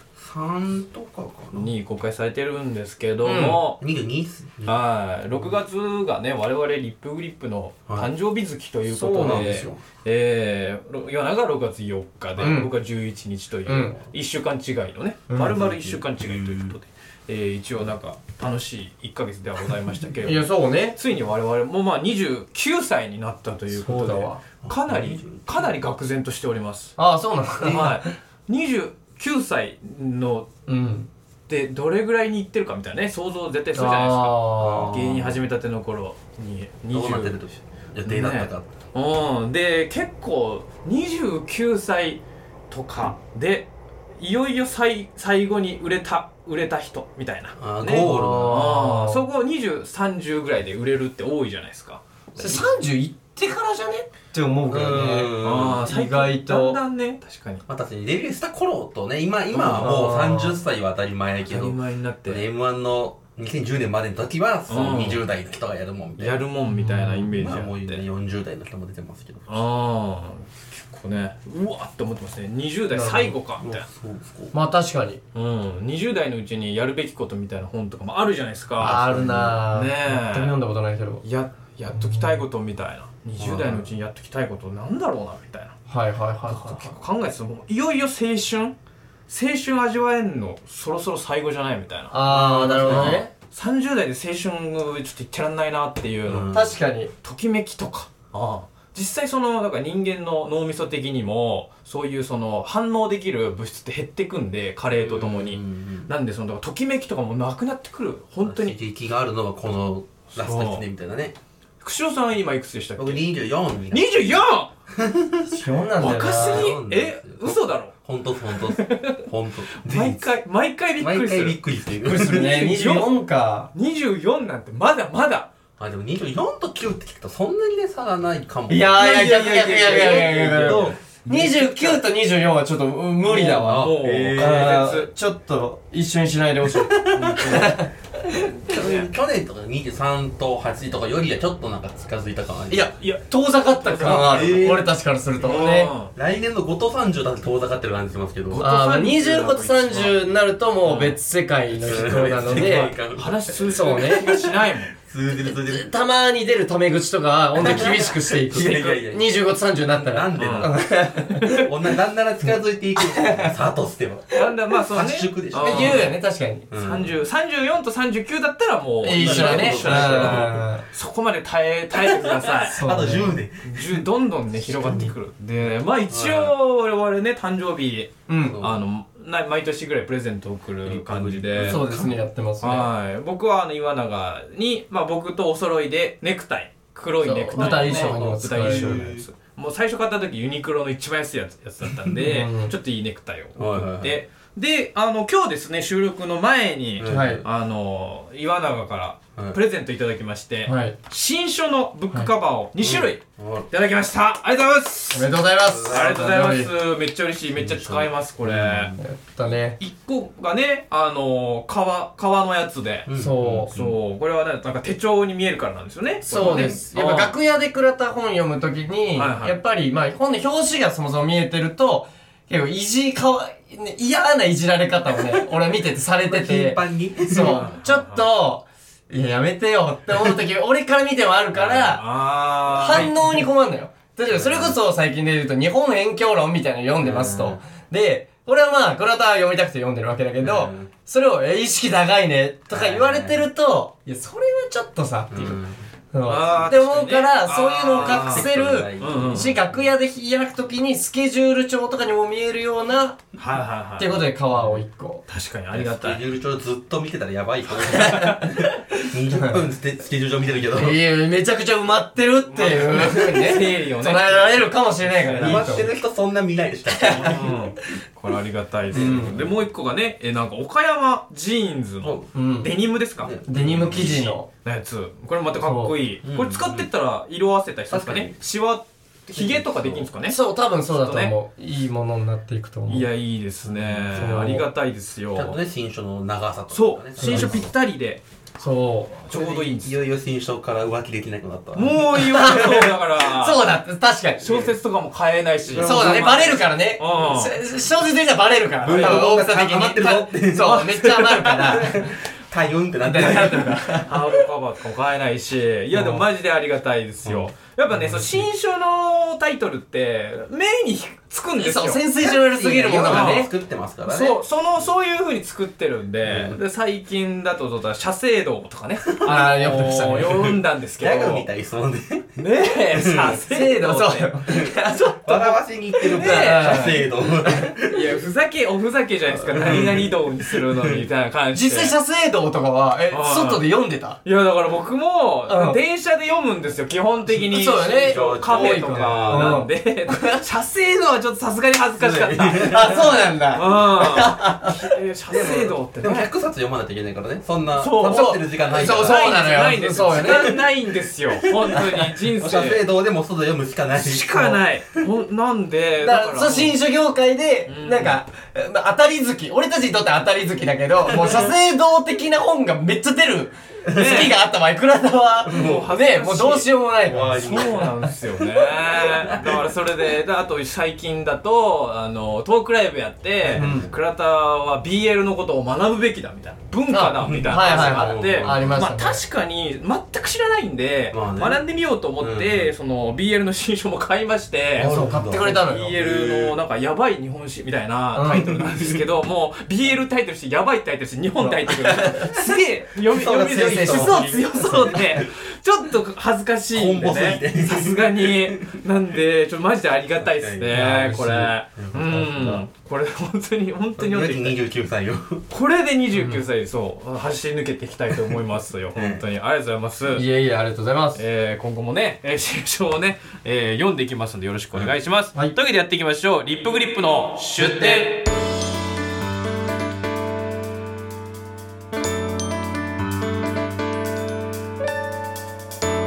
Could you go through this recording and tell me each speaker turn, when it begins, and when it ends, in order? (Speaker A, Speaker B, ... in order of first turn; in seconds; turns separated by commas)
Speaker A: 0.1-1.7, Speaker B: 1.5-3.8, Speaker C: 3.2-3.6, Speaker A: 3.8-4.8, Speaker B: 4.6-26.9, Speaker C: 8.9-9.6, Speaker A: 9.2-9.8, Speaker C: 12.4-12.7, Speaker C: 13.7-13.9, Speaker C: 15.3-15.6, Speaker A: 15.4-16.7, Speaker C: 20.2-21.0, Speaker C: 23.7-24.4, Speaker A: 24.6-25.7, Speaker C: 27.0-28.1, Speaker A: 27.6-27.9, Speaker B: 27.6-30.5, Speaker C: 30.7-31.1, Speaker B: 31.5-37.4, Speaker C: 33.7-34.9, Speaker A: 34.6-35.4, Speaker A: 36.9-38.7, Speaker B: 38.0-43.7, Speaker B: 44.2-52.0, Speaker A: 47.6-48.8, Speaker C: 47.9-49.2, Speaker A: 52.3-52.7, Speaker C: 52.4-56.8, Speaker A: 54.7-55.9, Speaker B: 55.4-57.6, Speaker A: 57.7-69.7, Speaker C: 59.5-60.6, Speaker B: 61.4-62.4, Speaker B: 64.7-65.2, Speaker B: 66.2-68.0, Speaker B: 69.5-73.8, Speaker C: 72.9-73.3, Speaker A: 73.6-74.5, Speaker C: 74.5-75.2, Speaker B: 75.3-80.6, Speaker C: 78.8-81.2, Speaker A: 78.8-79.6, Speaker B: 81.2-85.7, Speaker C: 81.9-82.3, Speaker A: 83.4-83.9, Speaker C: 85.9-86.9, Speaker B: 86.4-88.7, Speaker B: 89.3-96.6, Speaker C: 92.1-93.3, Speaker A: 92.8-93.2, Speaker A: 96.2-96.8, Speaker C: 96.5-97.1, Speaker B: 97.2-108.8, Speaker A: 104.9-106.1, Speaker A: 108.4-111.3, Speaker B: 110.3-110.8, Speaker B: 111.8-113.2, Speaker A: 113.0-114.1, Speaker B: 113.9-114.7, Speaker A: 114.9-120.4, Speaker C: 115.5-116.7, Speaker B: 116.0-117.9, Speaker B: 118.7-119.2, Speaker B: 119.8-121.6, Speaker A: 121.0-122.6, Speaker C: 122.0-123.7, Speaker B: 122.1-123.1, Speaker B: 123.7-125.5, Speaker A: 125.8-132.0, Speaker C: 128.7-138.4, Speaker B: 129.0-130.9, Speaker B: 133.2-135.1, Speaker A: 133.6-134.8, Speaker A: 136.7-137.7, Speaker B: 137.1-137.8, Speaker B: 138.3-139.1, Speaker A: 138.7-142.9, Speaker C: 142.7-145.9, Speaker B: 143.8-144.6, Speaker A: 143.9-144.9, Speaker B: 145.4-146.1, Speaker A: 146.1-148.7, Speaker B: 148.5-150.2, Speaker C: 148.6-152.9, Speaker B: 150.8-151.2, Speaker A: 151.8-155.9, Speaker B: 152.0-154.9, Speaker C: 153.5-154.3, Speaker C: 155.4-161.7, Speaker A: 157.5-160.8, Speaker B: 158.5-159.0, Speaker B: 160.4-160.7, Speaker B: 161.3-161.7, Speaker A: 161.6-164.3, Speaker C: 163.0-163.6, Speaker B: 164.3-166.1, Speaker A: 164.9-166.1, Speaker C: 165.6-166.7, Speaker A: 166.7-167.1, Speaker B: 166.7-172.8, Speaker C: 169.0-170.8, Speaker A: 169.1-170.7, Speaker A: 171.9-175.1, Speaker C: 172.7-173.3, Speaker B: 173.6-181.9, Speaker A: 176.1-176.5, Speaker C: 178.3-178.6, Speaker A: 178.4-178.8, Speaker A: 180.8-182.2, Speaker C: 181.6-182.9, Speaker B: 182.6-205.3, Speaker C: 187.2-189.1, Speaker A: 187.6-189.2, Speaker C: 192.2-192.7, Speaker A: 193.6-194.2, Speaker A: 197.0-197.5, Speaker C: 197.1-197.4, Speaker C: 200.7-200.9, Speaker A: 202.8-203.7, Speaker C: 205.1-206.7, Speaker A: 205.6-206.5, Speaker B: 205.8-208.9, Speaker A: 207.5-209.0, Speaker C: 209.0-209.8, Speaker B: 209.8-213.1, Speaker A: 213.1-214.0, Speaker C: 213.1-213.7, Speaker B: 213.7-217.3, Speaker C: 216.3-232.0, Speaker A: 216.3-216.8, Speaker B: 219.1-219.6, Speaker A: 225.2-225.5, Speaker A: 226.2-227.7, Speaker B: 227.3-228.2, Speaker A: 231.5-232.0, Speaker B: 231.9-233.1, Speaker A: 232.7-233.3, Speaker C: 232.7-245.6, Speaker A: 234.3-234.8, Speaker A: 237.0-237.6, Speaker A: 240.4-240.9, Speaker A: 242.7-243.4, Speaker A: 245.3-245.9, Speaker C: 246.1-253.2, Speaker B: 246.2-248.5, Speaker A: 247.9-249.9, Speaker B: 249.0-249.6, Speaker B: 253.4-254.2, Speaker C: 254.0-255.2, Speaker A: 254.5-254.8, Speaker B: 255.3-256.3, Speaker A: 255.7-261.0, Speaker C: 257.8-259.6, Speaker B: 258.0-258.4, Speaker C: 260.7-265.9, Speaker B: 262.4-265.9, Speaker A: 265.4-267.7, Speaker C: 266.9-267.5, Speaker B: 267.2-273.3, Speaker A: 268.9-269.5, Speaker C: 268.9-269.4, Speaker A: 272.0-272.3, Speaker C: 272.3-272.7, Speaker A: 273.2-274.3, Speaker C: 273.4-274.5, Speaker B: 273.9-280.4, Speaker C: 275.6-275.9, Speaker A: 276.2-276.9, Speaker A: 277.9-278.4, Speaker A: 279.3-280.1, Speaker C: 280.2-283.1, Speaker B: 280.9-281.3, Speaker B: 282.9-285.6, Speaker A: 283.6-284.6, Speaker C: 284.1-284.7, Speaker A: 285.3-287.7, Speaker B: 286.7-288.2, Speaker C: 287.2-287.7, Speaker C: 288.6-289.3, Speaker B: 289.3-290.0, Speaker A: 289.3-292.9, Speaker B: 291.7-293.6, Speaker C: 292.1-294.7, Speaker B: 294.4-297.6, Speaker A: 295.6-296.6, Speaker C: 295.8-302.1, Speaker A: 298.8-303.9, Speaker B: 298.8-299.2, Speaker B: 300.7-302.0, Speaker C: 303.0-304.4, Speaker B: 304.0-312.0, Speaker C: 305.9-306.2, Speaker A: 307.2-308.5, Speaker C: 311.6-313.5, Speaker A: 312.2-314.4, Speaker B: 312.9-313.5, Speaker B: 314.1-321.5, Speaker A: 316.2-316.6, Speaker A: 319.1-319.4, Speaker C: 319.2-320.6, Speaker A: 321.0-322.4, Speaker B: 322.4-324.4, Speaker A: 322.9-323.4, Speaker C: 323.4-325.4, Speaker A: 324.5-328.2, Speaker B: 325.3-325.6, Speaker C: 326.1-327.6, Speaker B: 326.1-326.9, Speaker B: 327.8-331.9, Speaker A: 329.3-331.0, Speaker C: 329.7-329.9, Speaker C: 331.5-334.2, Speaker B: 333.1-333.6, Speaker B: 334.2-342.9, Speaker C: 335.5-335.8, Speaker C: 337.3-340.4, Speaker A: 337.8-339.6, Speaker A: 342.0-343.2, Speaker C: 342.6-344.9, Speaker B: 343.5-346.3, Speaker A: 345.3-350.6, Speaker B: 347.8-352.8, Speaker C: 348.0-350.5, Speaker A: 351.4-354.6, Speaker B: 353.9-356.7, Speaker C: 356.0-367.9, Speaker B: 357.7-358.2, Speaker A: 363.9-364.3, Speaker B: 363.9-364.4, Speaker A: 365.4-365.9, Speaker B: 365.5-366.7, Speaker A: 367.1-369.9, Speaker B: 367.3-404.6, Speaker A: 373.4-373.9, Speaker C: 373.5-373.9, Speaker C: 376.9-379.2, Speaker A: 377.2-378.9, Speaker A: 381.1-381.6, Speaker A: 382.2-382.7, Speaker A: 384.7-386.6, Speaker C: 384.8-385.9, Speaker C: 388.1-388.6, Speaker A: 388.2-389.0, Speaker C: 391.7-392.3, Speaker A: 392.2-395.3, Speaker C: 393.5-394.7, Speaker A: 396.7-398.8, Speaker A: 400.2-401.0, Speaker C: 400.7-401.5, Speaker A: 401.8-402.6, Speaker A: 404.0-405.4, Speaker B: 405.5-410.2, Speaker C: 406.1-406.4, Speaker A: 408.9-409.2, Speaker C: 410.1-411.2, Speaker B: 411.1-418.2